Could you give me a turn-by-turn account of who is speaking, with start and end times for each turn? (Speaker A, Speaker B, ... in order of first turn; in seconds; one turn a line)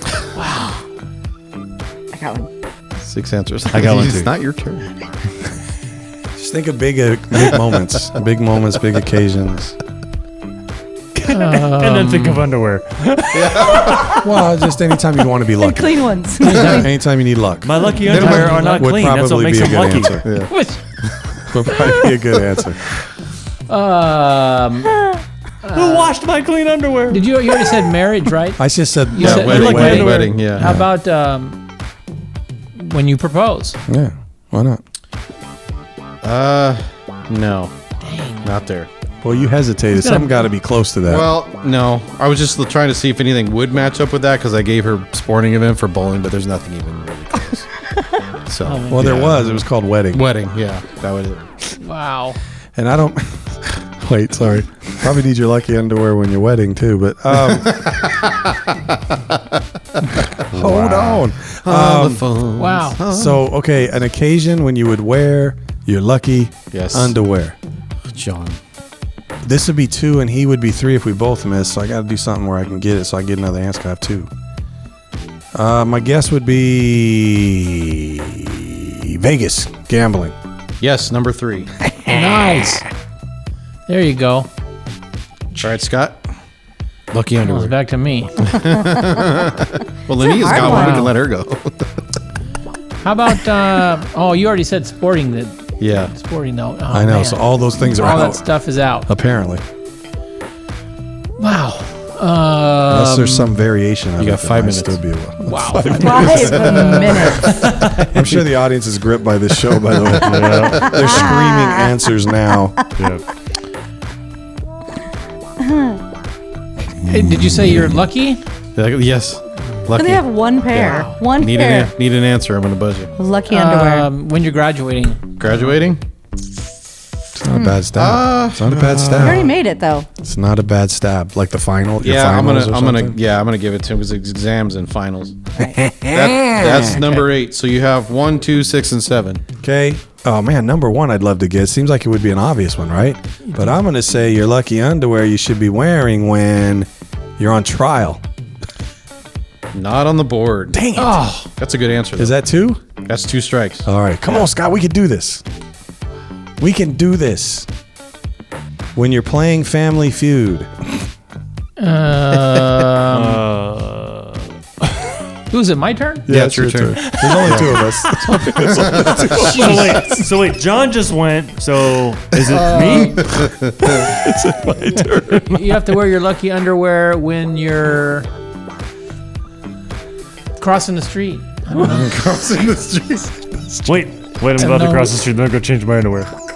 Speaker A: 0.4-0.8
Speaker B: 2.1-2.5
Speaker C: 3.0-4.9
Speaker D: 3.7-4.3
Speaker E: 6.4-9.8
Speaker D: 11.2-14.3
Speaker A: 11.3-12.4
Speaker C: 13.3-14.2
Speaker E: 14.1-20.3
Speaker B: 15.6-16.9
Speaker D: 17.6-20.2
Speaker A: 18.1-18.8
Speaker C: 18.1-18.4
Speaker C: 20.2-20.5
Speaker A: 20.5-20.8
Speaker E: 21.5-22.8
Speaker A: 23.7-25.1
Speaker B: 24.9-25.2
Speaker A: 25.6-26.1
Speaker D: 25.7-27.5
Speaker A: 27.1-31.6
Speaker E: 28.6-30.9
Speaker C: 29.2-30.7
Speaker D: 29.3-30.3
Speaker A: 32.8-33.8
Speaker E: 33.9-34.8
Speaker C: 36.2-37.7
Speaker A: 38.0-38.5
Speaker C: 38.4-38.9
Speaker E: 39.2-41.3
Speaker A: 40.0-40.4
Speaker C: 41.1-47.7
Speaker C: 48.5-51.5
Speaker A: 48.6-49.4
Speaker E: 48.9-50.3
Speaker A: 51.8-52.4
Speaker E: 52.8-57.9
Speaker C: 57.5-59.4
Speaker C: 60.0-63.4
Speaker E: 60.5-62.2
Speaker A: 62.6-63.0
Speaker E: 63.0-67.6
Speaker C: 66.7-67.2
Speaker C: 68.1-68.6
Speaker E: 69.4-74.3
Speaker E: 75.5-80.4
Speaker C: 80.8-81.7
Speaker A: 82.0-82.8
Speaker A: 83.9-84.5
Speaker C: 85.6-86.2
Speaker C: 87.1-87.8
Speaker A: 87.4-88.6
Speaker C: 88.4-91.9
Speaker B: 90.2-91.1
Speaker A: 90.5-91.1
Speaker A: 93.0-99.1
Speaker C: 95.8-96.1
Speaker E: 96.9-98.4
Speaker E: 99.1-99.6
Speaker A: 101.4-103.6
Speaker E: 102.9-106.9
Speaker C: 104.2-105.0
Speaker A: 105.4-108.2
Speaker B: 105.9-107.6
Speaker C: 106.3-107.7
Speaker D: 107.7-108.0
Speaker E: 108.1-112.8
Speaker C: 110.1-110.7
Speaker D: 110.2-111.2
Speaker B: 110.8-112.0
Speaker D: 113.0-113.2
Speaker B: 115.6-116.0
Speaker A: 117.1-118.4
Speaker C: 118.8-123.1
Speaker B: 119.9-121.9
Speaker A: 120.8-121.2
Speaker B: 123.2-124.1
Speaker A: 123.5-125.3
Speaker C: 125.4-126.0
Speaker E: 127.4-129.5
Speaker B: 127.5-127.8
Speaker C: 128.0-129.5
Speaker B: 129.2-130.1
Speaker E: 130.2-133.2
Speaker C: 132.0-135.4
Speaker E: 135.6-137.1
Speaker C: 136.1-139.4
Speaker E: 139.6-148.2
Speaker C: 149.7-150.9
Speaker E: 150.7-151.4
Speaker A: 151.0-151.4
Speaker C: 151.4-152.4
Speaker E: 152.2-152.8
Speaker C: 153.0-154.4
Speaker E: 153.9-155.4
Speaker E: 156.6-157.7
Speaker E: 158.9-160.9
Speaker A: 161.8-163.4
Speaker D: 163.1-164.4
Speaker A: 165.5-166.3
Speaker E: 166.3-170.0
Speaker C: 166.3-167.8
Speaker D: 167.0-173.4
Speaker C: 168.7-169.4
Speaker A: 169.3-170.2
Speaker C: 172.5-174.1
Speaker A: 172.7-173.2
Speaker E: 173.9-175.6
Speaker A: 175.4-178.3
Speaker A: 180.6-182.1
Speaker C: 181.8-183.5
Speaker E: 181.8-182.1
Speaker D: 183.9-186.3
Speaker A: 184.6-185.2